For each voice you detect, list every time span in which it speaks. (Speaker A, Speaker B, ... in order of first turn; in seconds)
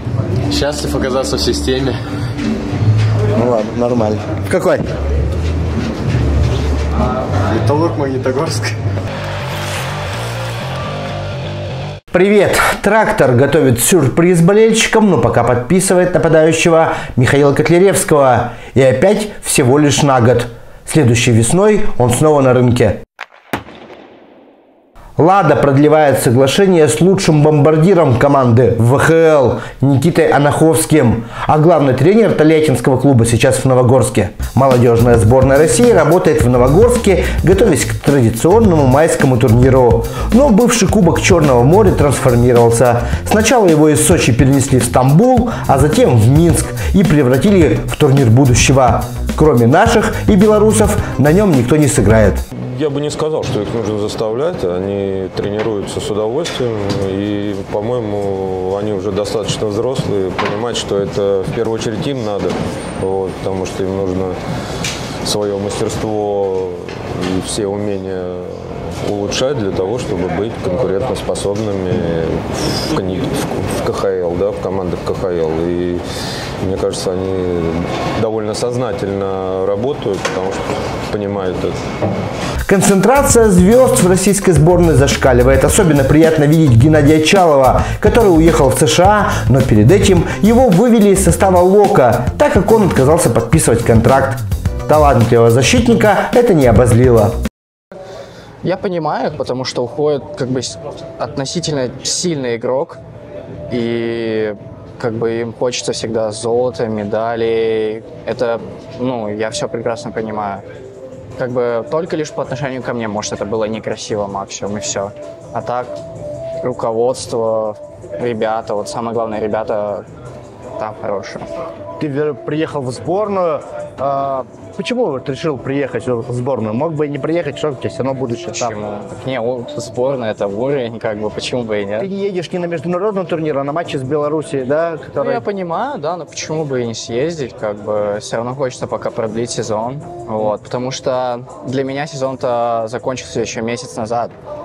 Speaker A: 0.5-1.9, 7.4-8.8
Speaker B: 3.4-4.8, 12.1-23.0, 25.2-52.4, 82.7-97.3, 122.0-128.8, 132.0-135.4
Speaker C: 52.5-64.3, 65.2-76.0, 76.6-81.8
Speaker D: 98.6-103.0, 103.7-110.6, 111.4-116.0, 116.6-120.1, 120.8-121.5, 128.5-132.1, 135.2-144.3